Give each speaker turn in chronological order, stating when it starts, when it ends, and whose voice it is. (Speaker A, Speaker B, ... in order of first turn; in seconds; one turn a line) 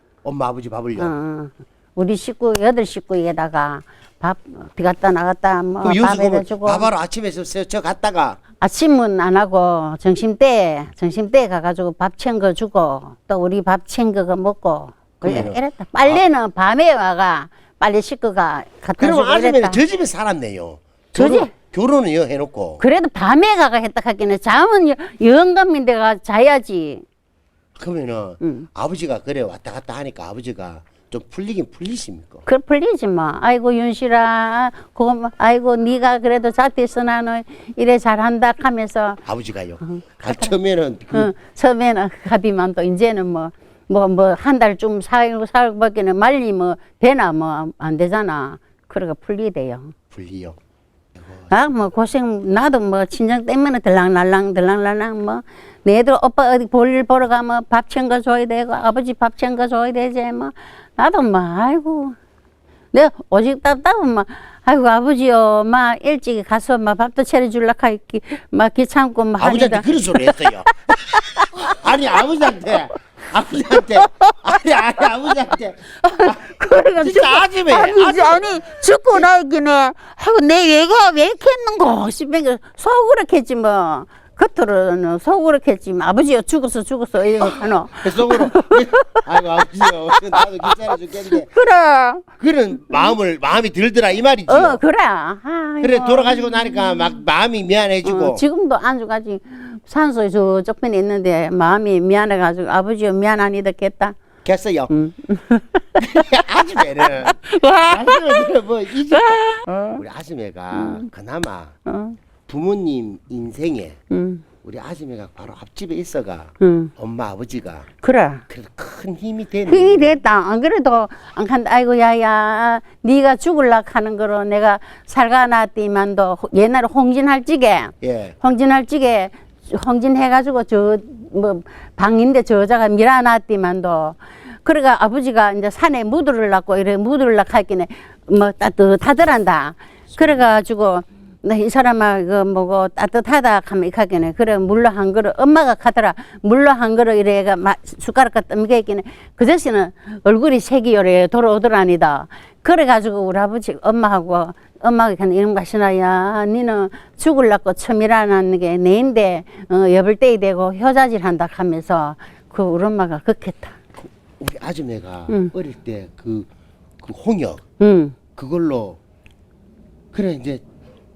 Speaker A: 0.2-1.1
Speaker B: 1.0-6.9
Speaker A: 5.8-8.4
Speaker B: 8.6-19.8
Speaker A: 15.2-16.2
Speaker A: 19.0-22.8
Speaker B: 21.2-21.5
Speaker B: 22.8-27.0
Speaker A: 27.8-32.4
Speaker B: 28.4-28.7
Speaker B: 32.5-39.2
Speaker A: 39.3-41.3
Speaker B: 39.9-40.5
Speaker B: 41.1-49.9
Speaker A: 50.1-50.6
Speaker B: 51.5-62.2
Speaker B: 62.9-71.8
Speaker A: 69.4-70.7
Speaker A: 71.6-76.4
Speaker B: 73.7-75.3
Speaker B: 76.0-92.3
Speaker A: 77.0-78.5
Speaker A: 87.4-91.5
Speaker A: 92.4-94.8
Speaker B: 94.5-97.2
Speaker A: 95.8-98.4
Speaker B: 98.0-104.2
Speaker A: 104.4-104.9
Speaker B: 104.9-106.0
Speaker A: 106.0-111.8
Speaker B: 107.0-108.5
Speaker B: 109.1-110.0
Speaker B: 110.7-111.1
Speaker B: 111.9-112.2
Speaker A: 112.5-114.0
Speaker B: 114.1-114.4
Speaker A: 114.6-117.9
Speaker B: 116.6-116.9
Speaker B: 118.0-118.4
Speaker A: 118.5-120.2
Speaker B: 119.7-163.8
Speaker A: 128.0-128.3
Speaker A: 140.2-140.4
Speaker A: 164.4-166.5
Speaker A: 167.0-167.6
Speaker B: 167.8-168.2
Speaker A: 168.3-169.0
Speaker A: 170.1-170.6